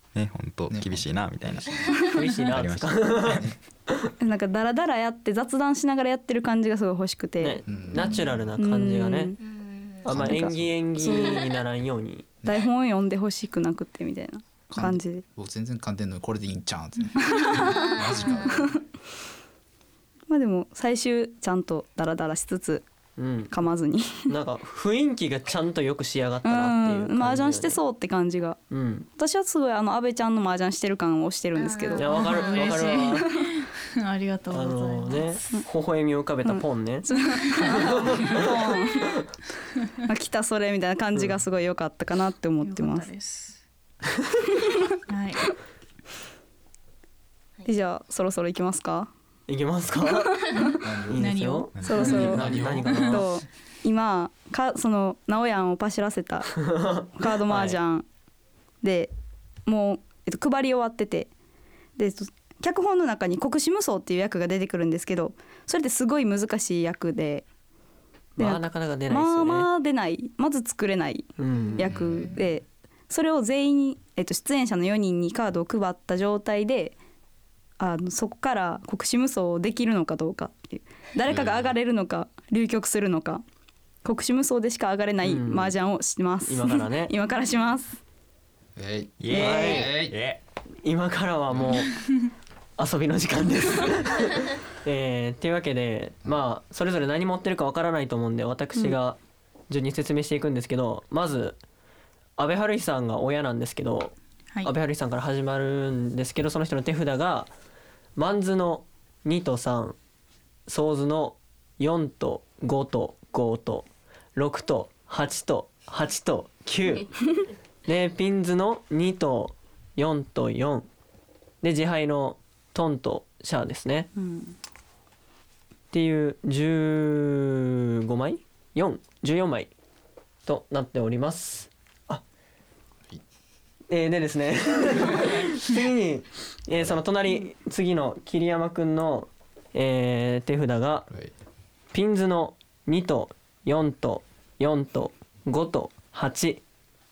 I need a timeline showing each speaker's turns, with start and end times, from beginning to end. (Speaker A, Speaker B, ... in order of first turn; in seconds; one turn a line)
Speaker A: 0.1-3.5
Speaker B: 0.7-1.6
Speaker C: 2.1-3.4
Speaker D: 4.2-7.6
Speaker C: 7.4-9.3
Speaker B: 7.7-8.6
Speaker D: 8.6-9.4
Speaker E: 9.4-10.0
Speaker C: 10.0-12.3
Speaker B: 10.1-10.9
Speaker D: 10.1-11.5
Speaker E: 11.1-11.4
Speaker D: 12.4-15.2
Speaker B: 14.7-18.8
Speaker D: 17.2-18.8
Speaker E: 17.5-18.7
Speaker D: 20.3-22.8
Speaker C: 23.2-23.5
Speaker D: 23.5-24.3
Speaker C: 24.3-27.8
Speaker D: 26.4-28.6
Speaker C: 28.7-29.1
Speaker D: 29.2-32.3
Speaker E: 31.6-32.8
Speaker C: 32.0-33.3
Speaker F: 32.0-35.6
Speaker D: 33.2-33.5
Speaker C: 34.5-37.1
Speaker D: 36.4-39.2
Speaker F: 37.4-38.5
Speaker C: 37.6-38.5
Speaker D: 40.1-43.1
Speaker F: 42.6-43.6
Speaker F: 45.1-45.5
Speaker D: 47.7-49.1
Speaker C: 49.5-50.4
Speaker D: 50.0-50.8
Speaker B: 50.8-51.3
Speaker C: 51.1-53.3
Speaker F: 51.2-53.2
Speaker A: 51.8-52.1
Speaker D: 51.8-52.5
Speaker B: 52.0-53.1
Speaker D: 53.1-58.1
Speaker C: 56.6-57.8
Speaker D: 58.8-59.1
Speaker D: 59.7-61.3
Speaker D: 62.0-67.5
Speaker C: 68.4-69.7
Speaker D: 68.4-77.0
Speaker C: 71.4-71.9
Speaker B: 71.8-72.4
Speaker D: 77.8-83.4
Speaker B: 81.3-81.8
Speaker D: 84.0-88.0
Speaker C: 85.2-85.8
Speaker C: 86.5-87.1
Speaker B: 88.8-90.2
Speaker A: 89.2-90.4
Speaker C: 89.3-89.9
Speaker C: 90.8-91.9
Speaker B: 91.5-91.8
Speaker C: 92.8-99.2
Speaker C: 99.7-101.6
Speaker C: 102.4-104.1
Speaker C: 104.6-107.5
Speaker C: 108.2-110.0
Speaker C: 110.7-117.1
Speaker C: 117.9-120.9
Speaker C: 121.6-124.1
Speaker D: 124.2-124.5
Speaker C: 125.9-129.7
Speaker C: 130.5-132.2
Speaker C: 133.9-141.1
Speaker B: 136.8-137.0
Speaker C: 141.9-146.6